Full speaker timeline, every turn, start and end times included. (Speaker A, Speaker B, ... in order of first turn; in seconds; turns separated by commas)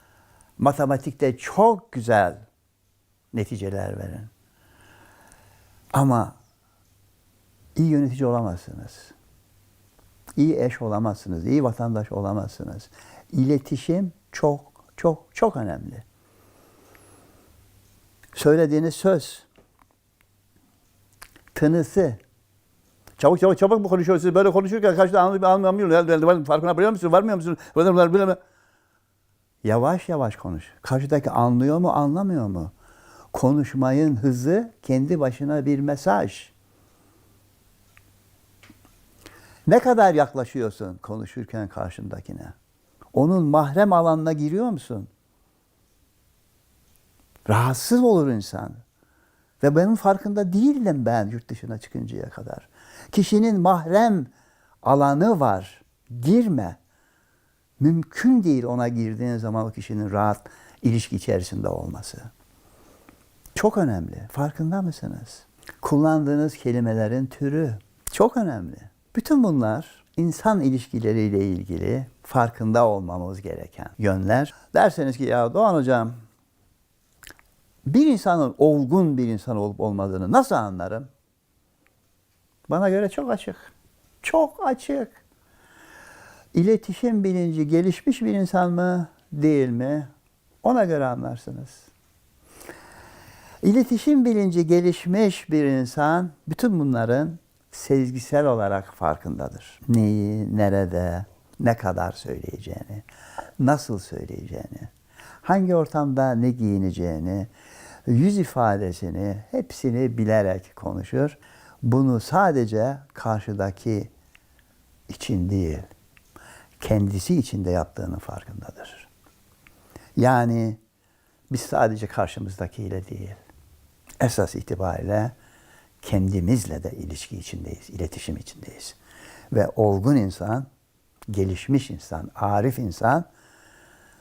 Speaker A: 0.6-2.4, Speaker A: 3.3-4.3, Speaker A: 5.9-6.4, Speaker A: 7.8-9.1, Speaker A: 10.4-16.0, Speaker A: 18.3-19.4, Speaker A: 21.5-22.2, Speaker A: 23.2-28.4, Speaker A: 29.6-32.7, Speaker A: 33.3-36.5, Speaker A: 39.6-42.5, Speaker A: 43.1-45.1, Speaker A: 47.4-48.8, Speaker A: 49.6-54.3, Speaker A: 54.8-56.8, Speaker A: 57.8-62.3, Speaker A: 63.5-76.2, Speaker A: 77.9-81.1, Speaker A: 82.7-85.2, Speaker A: 86.5-90.1, Speaker A: 90.6-91.9, Speaker A: 93.6-103.0, Speaker A: 103.6-104.9, Speaker A: 105.4-107.5, Speaker A: 108.1-114.1, Speaker A: 115.1-115.9, Speaker A: 116.8-119.1, Speaker A: 120.2-120.8, Speaker A: 121.5-123.4, Speaker A: 124.2-125.3, Speaker A: 126.0-129.0, Speaker A: 129.5-130.7, Speaker A: 131.3-133.3